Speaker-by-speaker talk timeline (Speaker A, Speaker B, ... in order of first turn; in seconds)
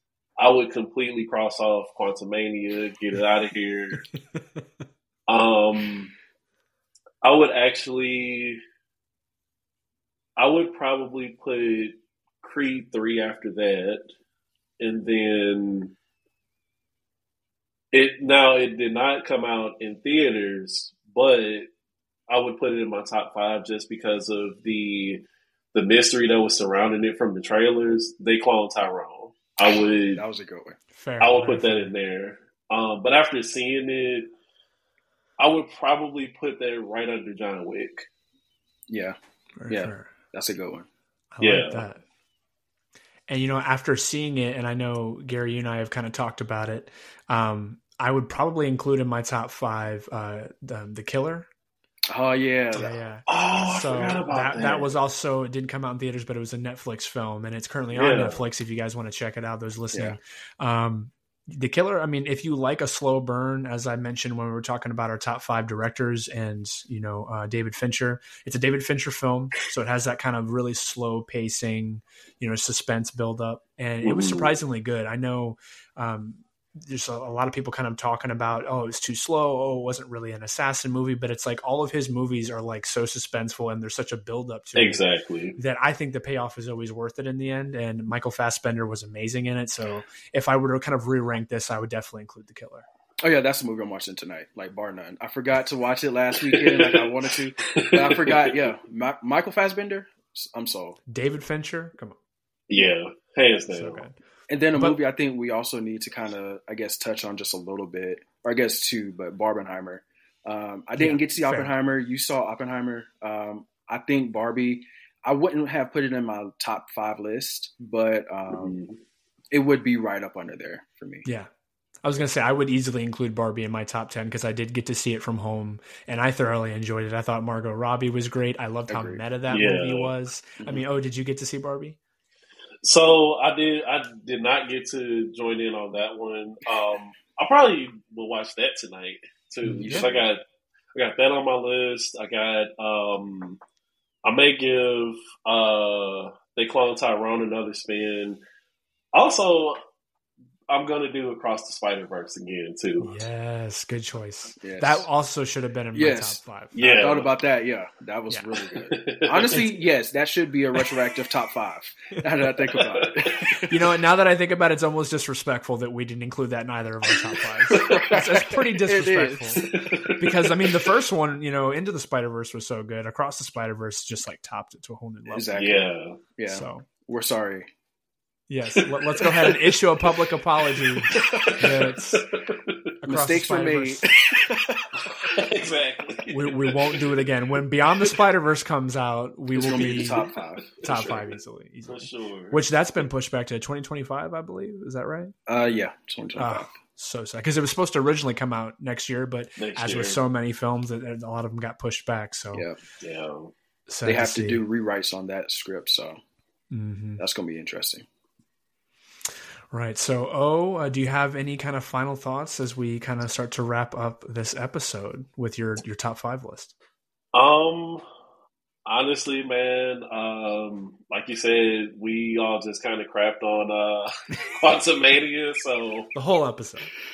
Speaker A: 0.4-4.0, 5.3-6.2, 7.2-8.6, 10.4-14.1, 14.8-15.9, 17.9-21.7, 22.3-25.2, 25.7-30.2, 31.2-34.3, 35.4-38.1, 41.4-41.9, 53.3-54.9, 57.9-58.4, 74.0-74.5, 84.8-85.6, 96.5-98.6, 102.7-104.0, 118.5-119.0, 129.5-130.1, 132.8-140.4, 140.9-143.6, 144.2-148.4, 149.1-149.8, 150.7-153.1, 156.7-157.3, 158.8-159.6, 162.7-163.5, 169.7-170.3, 175.5-176.2, 181.1-182.8, 185.0-187.2, 190.8-191.3, 191.9-192.7, 199.6-200.2, 203.0-203.5, 217.3-218.0, 218.9-226.1
Speaker B: 30.1-30.8, 38.9-39.2, 39.7-40.9, 52.1-53.0, 93.2-101.0, 104.5-118.8, 119.5-121.3, 128.9-129.2, 139.8-140.2, 154.6-155.1, 155.9-163.8, 167.7-169.8, 175.3-177.7, 181.2-181.7, 183.1-185.3, 189.5-191.2, 195.5-196.7, 202.5-202.8, 204.1-206.2, 207.2-208.1
Speaker C: 30.9-31.9, 39.6-40.1, 41.3-42.0, 43.3-51.5, 52.7-85.0, 85.6-92.9, 101.1-102.2, 103.7-104.2, 111.0-111.7, 122.0-132.0, 139.7-140.1, 153.0-156.8, 159.5-159.8, 163.6-175.5, 176.5-176.9, 178.5-182.3, 183.0-184.1, 186.3-190.3, 190.8-195.3, 196.4-202.7, 203.9-204.7, 206.7-207.2, 209.7-216.7, 226.2-226.9